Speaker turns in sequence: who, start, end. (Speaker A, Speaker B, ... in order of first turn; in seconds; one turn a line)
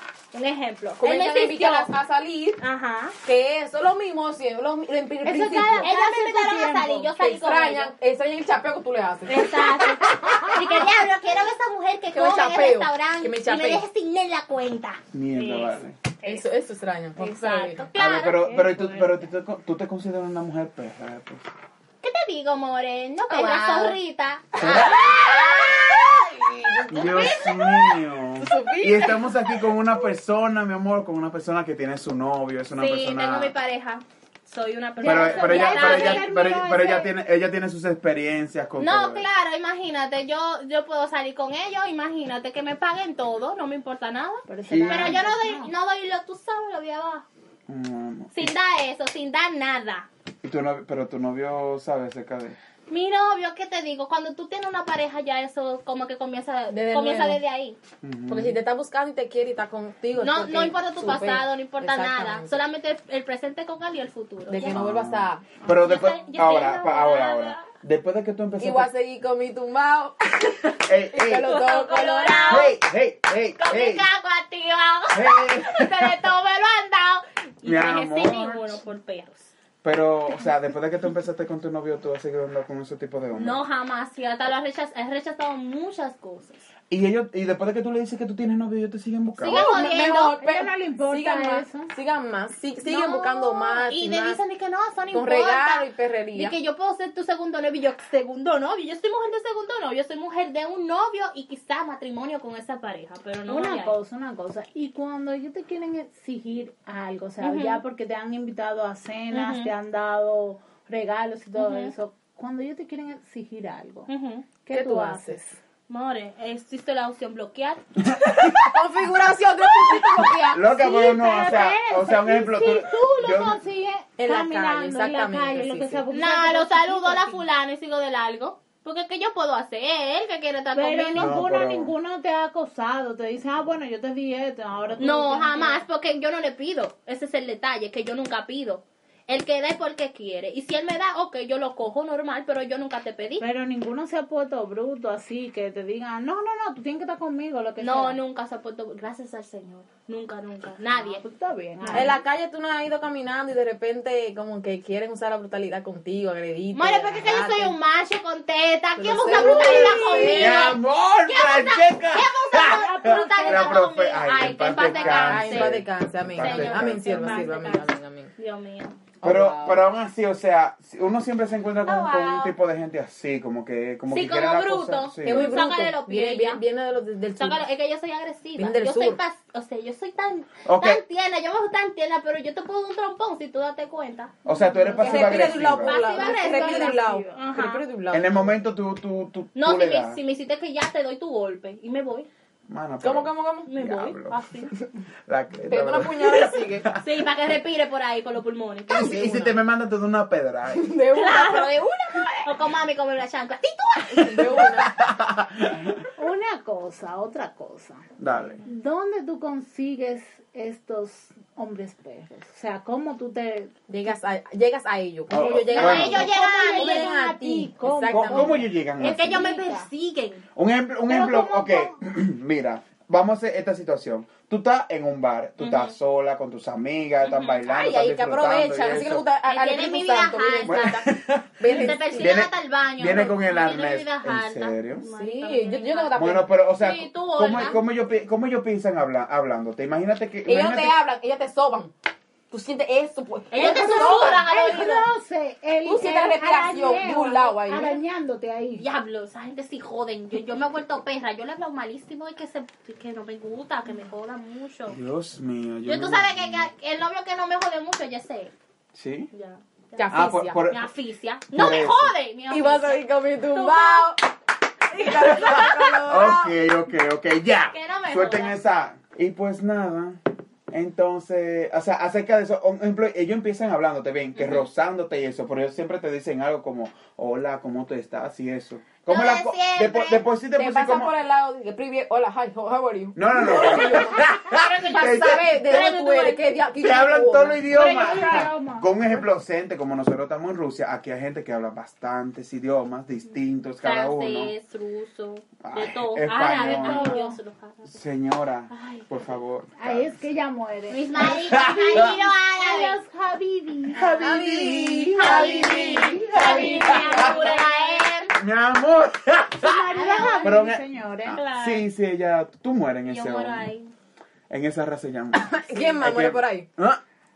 Speaker A: 0.3-1.9
Speaker B: 1.0-2.6
Speaker A: 2.6-3.1
Speaker B: 3.2-5.9
Speaker C: 5.2-7.1
Speaker A: 5.8-7.9
Speaker B: 7.2-11.0
Speaker A: 9.3-16.4
Speaker B: 12.1-13.8
Speaker D: 15.1-16.0
Speaker B: 16.2-17.8
Speaker A: 17.2-19.0
Speaker D: 17.9-21.4
Speaker C: 18.4-19.1
Speaker A: 22.0-26.2
Speaker B: 23.3-24.0
Speaker D: 24.6-25.1
Speaker B: 24.6-27.8
Speaker D: 26.9-33.5
Speaker A: 27.0-27.7
Speaker B: 28.4-29.6
Speaker A: 32.8-36.3
Speaker C: 35.0-37.1
Speaker D: 35.0-39.3
Speaker A: 38.8-47.3
Speaker C: 44.5-45.7
Speaker D: 44.7-45.2
Speaker D: 47.7-48.5
Speaker A: 48.3-50.1
Speaker D: 50.4-52.6
Speaker A: 52.9-57.8
Speaker B: 56.7-57.4
Speaker D: 58.0-58.6
Speaker B: 58.3-62.5
Speaker A: 60.1-64.8
Speaker B: 64.5-65.5
Speaker D: 64.7-68.9
Speaker A: 65.7-67.7
Speaker B: 68.6-72.7
Speaker D: 70.8-71.5
Speaker A: 71.3-72.8
Speaker D: 72.5-74.0
Speaker A: 73.6-79.5
Speaker D: 75.1-76.2
Speaker D: 77.6-78.8
Speaker D: 79.8-83.6
Speaker A: 83.3-86.7
Speaker D: 86.9-89.8
Speaker A: 89.4-90.4
Speaker B: 89.5-94.4
Speaker C: 89.7-91.9
Speaker A: 92.8-103.9
Speaker B: 95.1-96.5
Speaker C: 103.5-114.1
Speaker A: 107.4-107.8
Speaker A: 109.3-109.7
Speaker A: 111.5-111.9
Speaker A: 114.1-114.5
Speaker C: 114.6-115.6
Speaker B: 114.7-115.4
Speaker A: 115.9-117.8
Speaker D: 118.0-118.8
Speaker B: 118.6-120.7
Speaker D: 120.5-123.6
Speaker C: 120.7-127.4
Speaker B: 124.2-126.0
Speaker A: 126.1-131.3
Speaker C: 130.7-135.8
Speaker D: 131.2-131.9
Speaker A: 135.0-143.4
Speaker C: 143.4-148.2
Speaker A: 147.8-151.2
Speaker C: 151.0-152.2
Speaker A: 151.8-152.2
Speaker B: 151.9-157.8
Speaker A: 156.7-165.8
Speaker B: 159.0-160.8
Speaker C: 159.2-160.4
Speaker D: 159.4-167.4
Speaker C: 162.7-163.9
Speaker B: 164.8-168.3
Speaker A: 166.4-169.0
Speaker C: 167.3-167.7
Speaker B: 169.2-169.8
Speaker D: 169.2-175.6
Speaker A: 171.8-172.5
Speaker A: 174.1-176.6
Speaker B: 175.2-177.6
Speaker A: 177.4-184.3
Speaker B: 178.6-179.2
Speaker D: 180.6-181.0
Speaker D: 184.4-186.1
Speaker C: 184.5-187.5
Speaker B: 185.0-188.5
Speaker A: 185.2-187.8
Speaker D: 188.1-190.2
Speaker A: 189.5-192.3
Speaker D: 192.7-194.4
Speaker B: 193.0-193.7
Speaker A: 193.7-194.7
Speaker D: 195.3-197.0
Speaker B: 195.7-196.9
Speaker A: 197.0-199.5
Speaker D: 198.9-200.9
Speaker B: 200.7-202.5
Speaker A: 201.1-201.7
Speaker A: 202.4-204.7
Speaker B: 204.1-204.9
Speaker D: 204.5-206.0
Speaker C: 206.1-208.1
Speaker D: 208.2-208.6
Speaker C: 208.6-213.7
Speaker B: 213.9-218.7
Speaker D: 215.3-216.3
Speaker C: 215.4-219.9
Speaker A: 215.7-217.2
Speaker D: 218.1-219.5
Speaker A: 219.0-220.4
Speaker D: 220.6-229.2
Speaker C: 221.1-221.9
Speaker A: 225.6-225.9
Speaker A: 227.2-227.6
Speaker B: 227.7-231.1
Speaker A: 229.4-231.0
Speaker D: 230.7-235.1
Speaker B: 231.6-232.3
Speaker A: 231.6-237.8
Speaker B: 235.1-236.5
Speaker D: 236.2-241.0
Speaker B: 240.4-241.9
Speaker B: 242.5-244.9
Speaker A: 243.5-245.1
Speaker C: 243.6-248.8
Speaker B: 245.8-248.0
Speaker A: 248.8-255.0
Speaker D: 254.9-256.7
Speaker A: 255.8-258.5
Speaker D: 258.9-259.3
Speaker A: 259.3-264.1
Speaker B: 260.0-260.6
Speaker D: 260.1-260.9
Speaker D: 261.5-262.1
Speaker B: 262.5-264.2
Speaker B: 264.9-266.5
Speaker A: 264.9-266.0
Speaker D: 265.2-281.1
Speaker A: 267.7-268.6
Speaker A: 274.4-274.7
Speaker A: 279.1-280.2
Speaker B: 280.6-287.7
Speaker D: 283.1-285.9
Speaker A: 283.6-286.6
Speaker D: 286.8-294.5
Speaker C: 287.7-288.9
Speaker A: 293.8-297.9
Speaker D: 295.6-297.1
Speaker C: 296.5-297.4
Speaker D: 297.9-300.2
Speaker A: 298.7-299.0
Speaker C: 299.8-304.2
Speaker A: 300.9-303.0
Speaker D: 301.1-302.2
Speaker D: 303.9-307.4
Speaker B: 304.2-307.5
Speaker A: 305.2-308.3
Speaker C: 306.3-307.9
Speaker D: 308.3-309.9
Speaker C: 309.6-311.4
Speaker A: 309.9-310.6
Speaker D: 310.4-313.7
Speaker A: 311.3-311.8
Speaker A: 313.1-313.9
Speaker D: 314.5-317.0
Speaker B: 315.4-316.6